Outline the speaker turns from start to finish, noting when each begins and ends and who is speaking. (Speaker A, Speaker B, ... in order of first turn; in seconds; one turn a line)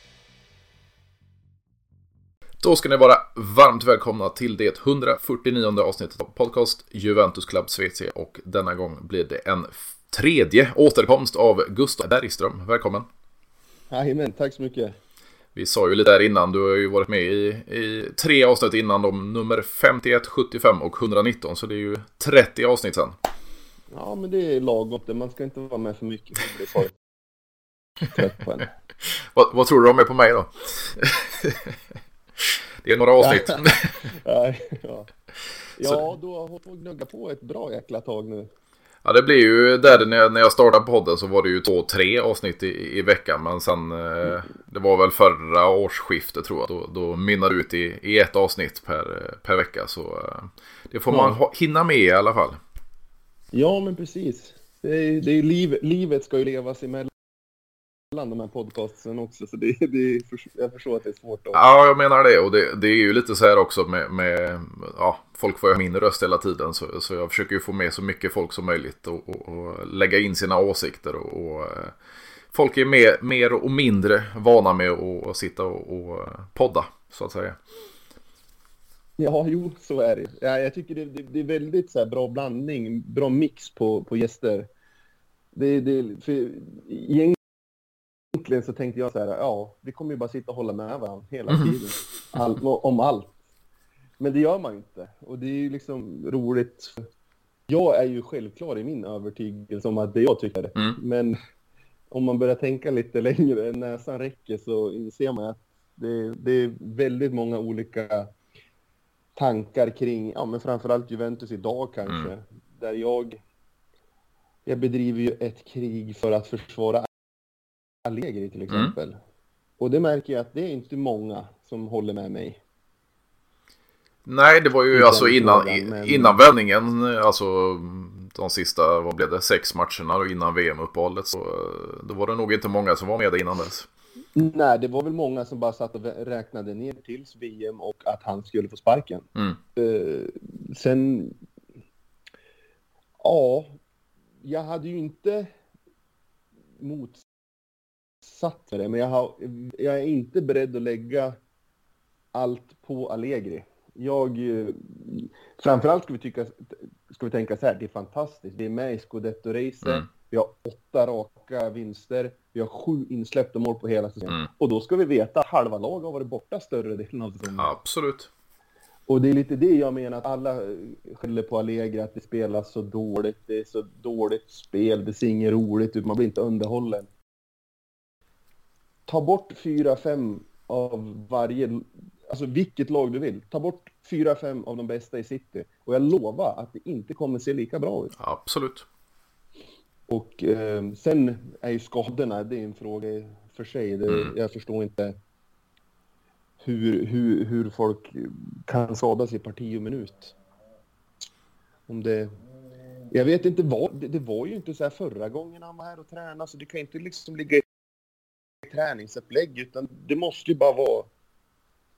Speaker A: 2.6-13.1
Speaker B: 13.9-15.0
Speaker A: 15.5-23.1
Speaker B: 23.9-26.9
Speaker B: 28.1-28.7
Speaker A: 29.0-31.8
Speaker A: 32.4-34.0
Speaker B: 33.2-35.1
Speaker B: 35.8-38.5
Speaker A: 39.0-52.6
Speaker B: 51.1-51.4
Speaker B: 53.5-57.1
Speaker B: 58.1-61.6
Speaker A: 61.5-72.0
Speaker A: 72.5-77.6
Speaker B: 79.2-84.7
Speaker B: 85.5-87.4
Speaker B: 88.3-93.4
Speaker B: 94.2-97.1
Speaker B: 97.7-101.4
Speaker B: 102.1-108.3
Speaker B: 109.3-113.4
Speaker B: 114.7-117.1
Speaker B: 118.0-119.2
Speaker B: 119.8-122.6
Speaker A: 124.2-133.9
Speaker B: 124.9-126.3
Speaker B: 134.3-141.3
Speaker B: 143.2-143.8
Speaker B: 144.4-145.5
Speaker B: 146.8-147.2
Speaker B: 148.2-151.4
Speaker B: 152.3-167.7
Speaker A: 167.6-168.3
Speaker B: 169.1-177.1
Speaker B: 179.1-188.1
Speaker A: 188.2-188.8
Speaker B: 190.1-195.2
Speaker B: 196.6-200.3
Speaker B: 201.9-202.3
Speaker B: 203.1-207.6
Speaker B: 208.6-211.1